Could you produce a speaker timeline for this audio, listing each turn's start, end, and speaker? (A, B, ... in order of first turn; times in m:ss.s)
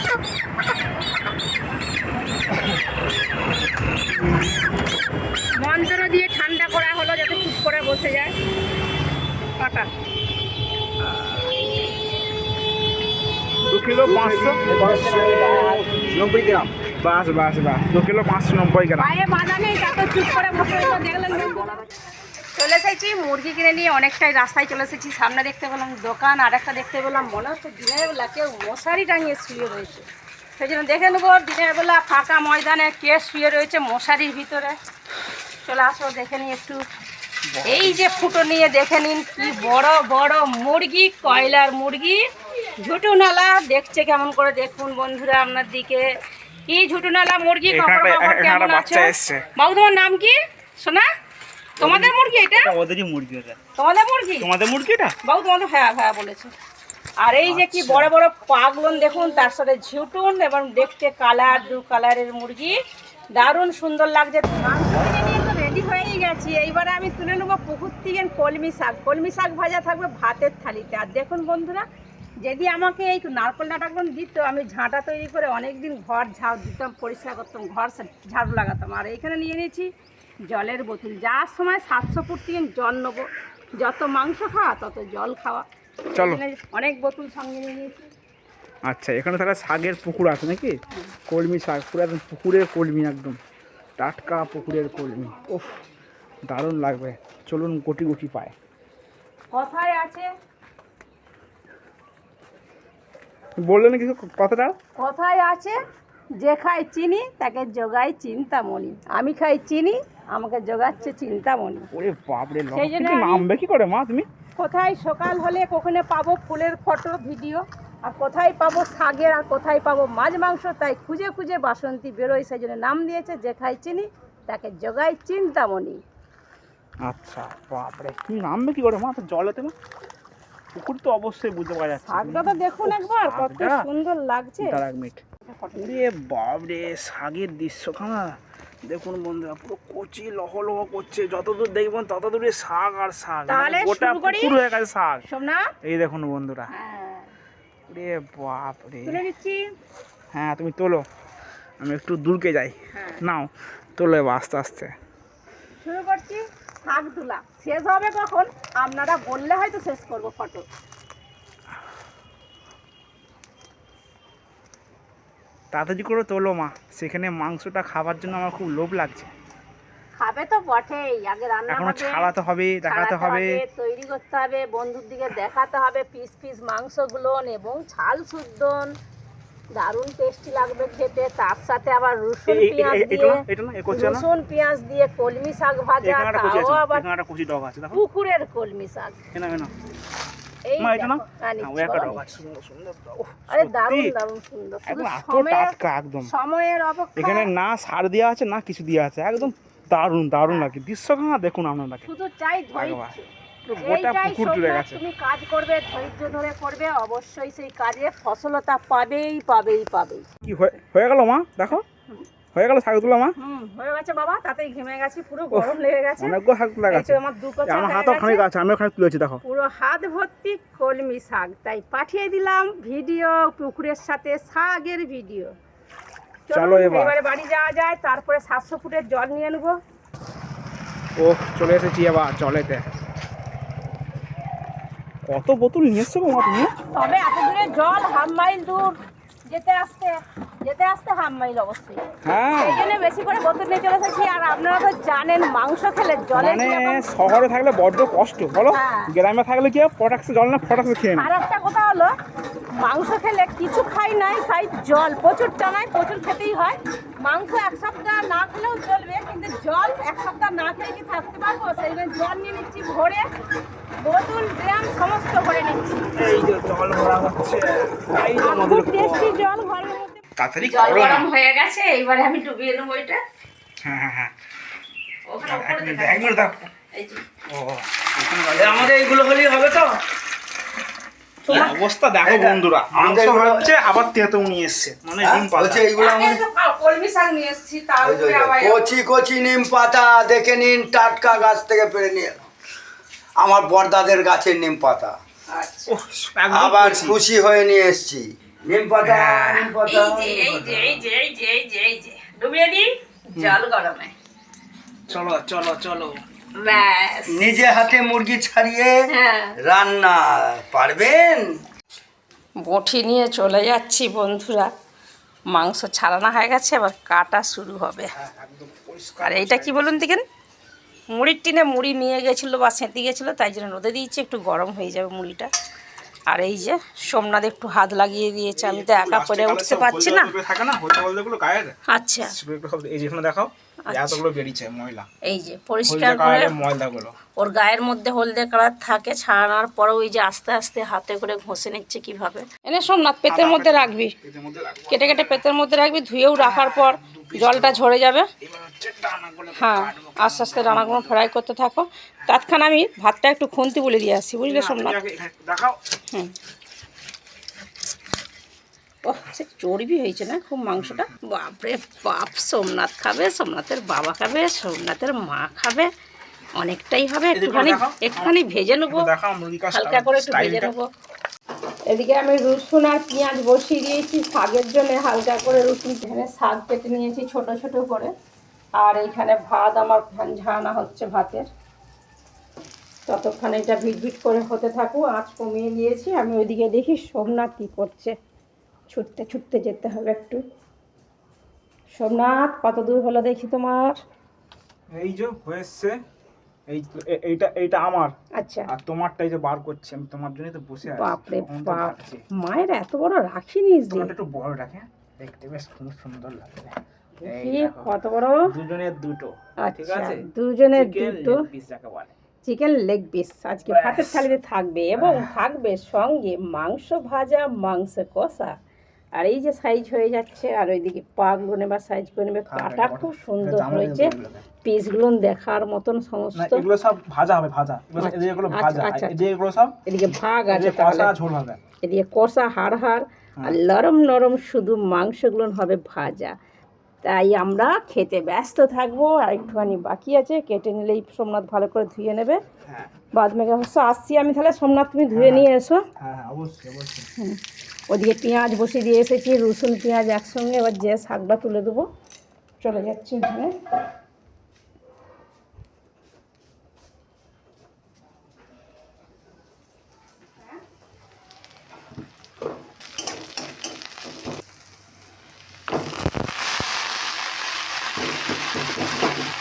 0:05.6-0:08.3 A
0:09.6-0:09.9 A
0:13.7-0:15.3 B
0:14.3-0:16.2 C
0:16.1-0:19.1 B
0:19.0-0:22.0 A
0:22.5-0:30.1 A
0:30.6-0:34.8 A
0:35.6-0:36.8 A
0:37.5-0:38.0 B
0:37.7-0:42.2 A
0:42.8-0:46.0 A
0:46.7-0:51.1 A
0:47.7-0:49.5 B
0:51.8-0:52.8 A
0:51.8-0:53.6 B
0:53.8-0:54.5 A
0:54.4-0:55.2 B
0:55.2-0:56.5 A
0:57.2-1:02.8 A
0:57.4-0:58.1 B
1:03.4-1:11.8 A
1:12.4-1:19.9 A
1:20.5-1:28.1 A
1:26.2-1:26.4 B
1:28.9-1:30.8 B
1:31.3-1:33.4 B
1:34.0-1:35.7 B
1:36.5-1:38.5 B
1:39.5-1:40.3 A
1:43.6-1:44.8 B
1:45.0-1:45.8 A
1:46.4-1:51.9 A
1:51.9-1:54.3 B
1:52.7-1:53.5 A
1:54.6-2:06.0 A
2:07.0-2:09.7 B
2:10.7-2:13.8 B
2:12.1-2:14.8 A
2:14.6-2:15.2 B
2:15.4-2:16.0 A
2:15.8-2:25.3 B
2:23.5-2:24.6 A
2:25.3-2:25.7 A
2:25.8-2:26.7 B
2:26.7-2:27.3 A
2:27.9-2:29.2 B
2:29.0-2:29.6 A
2:30.3-2:31.0 B
2:31.8-2:34.9 B
2:32.9-2:33.2 A
2:35.8-2:40.7 A
2:45.7-2:49.3 B
2:50.2-2:52.3 A
2:51.7-2:53.6 B
2:52.9-2:58.9 A
2:59.8-3:07.1 A
3:02.5-3:04.3 B
3:06.0-3:08.0 B
3:07.9-3:09.2 A
3:09.3-3:09.7 B
3:10.7-3:12.4 A
3:10.8-3:14.1 B
3:13.5-3:17.5 A
3:14.9-3:16.3 B
3:17.2-3:22.1 B
3:22.1-3:30.3 A
3:22.8-3:23.2 B
3:23.7-3:25.0 B
3:30.4-3:31.9 B
3:32.5-3:33.4 B
3:33.4-3:38.5 A
3:35.5-3:39.4 B
3:39.4-3:45.5 A
3:46.5-3:49.8 A
3:46.5-3:47.2 B
3:51.2-3:52.9 B
3:55.3-3:56.7 B
3:56.9-3:59.0 A
3:59.5-4:07.0 A
4:02.2-4:02.8 B
4:06.3-4:11.3 B
4:08.7-4:09.1 A
4:11.2-4:12.1 A
4:12.8-4:23.2 A
4:24.0-4:26.1 A
4:26.2-4:29.4 B
4:28.4-4:33.2 A
4:30.4-4:31.3 B
4:33.8-4:34.3 B
4:35.3-4:36.4 A
4:35.4-4:36.7 B
4:36.9-4:37.3 A
4:37.5-4:39.1 B
4:38.6-4:39.9 C
4:41.4-4:41.8 A
4:41.5-4:45.9 B
4:42.2-4:43.7 C
4:45.2-4:46.4 C
4:46.0-4:49.0 A
4:48.0-4:52.3 C
4:53.4-4:55.2 C
4:55.5-4:56.0 A
4:55.9-4:57.2 B
4:56.5-5:00.9 C
4:59.0-4:59.7 B
4:59.8-5:04.1 A
5:05.1-5:06.2 B
5:06.6-5:07.5 A
5:07.3-5:09.0 C
5:09.1-5:09.6 A
5:09.6-5:11.5 C
5:12.6-5:14.7 A
5:15.5-5:18.1 A
5:18.1-5:20.0 B
5:19.2-5:20.2 A
5:21.1-5:25.5 A
5:26.3-5:30.3 A
5:28.5-5:35.1 B
5:31.9-5:32.3 A
5:33.9-5:34.2 A
5:35.2-5:36.6 A
5:35.8-5:37.2 B
5:37.4-5:44.1 A
5:43.3-5:45.4 B
5:44.9-5:48.3 A
5:46.4-5:47.8 B
5:48.4-5:51.2 B
5:49.6-5:55.0 A
5:54.5-5:55.8 B
5:59.0-6:05.9 A
6:00.8-6:01.1 B
6:06.6-6:09.1 A
6:07.3-6:08.3 B
6:08.9-6:10.7 B
6:09.7-6:10.8 A
6:11.9-6:18.1 A
6:18.8-6:21.5 A
6:23.1-6:28.1 A
6:28.9-6:30.4 A
6:32.0-6:34.0 A
6:34.9-6:36.0 B
6:36.7-6:38.1 B
6:38.4-6:38.7 A
6:38.7-6:42.2 B
6:40.8-6:44.2 A
6:43.9-6:47.9 B
6:47.2-6:48.5 A
6:48.4-6:50.2 B
6:49.6-6:51.4 A
6:50.7-6:52.1 B
6:52.4-6:58.6 A
6:53.7-6:54.3 B
6:55.0-6:55.3 B
6:59.2-7:06.6 A
7:02.5-7:04.5 B
7:06.3-7:09.8 B
7:08.0-7:09.2 A
7:09.9-7:11.1 A
7:10.5-7:11.6 B
7:11.8-7:16.4 A
7:17.0-7:22.4 A
7:23.1-7:25.8 A
7:25.1-7:27.1 B
7:27.9-7:31.9 A
7:32.6-7:33.5 A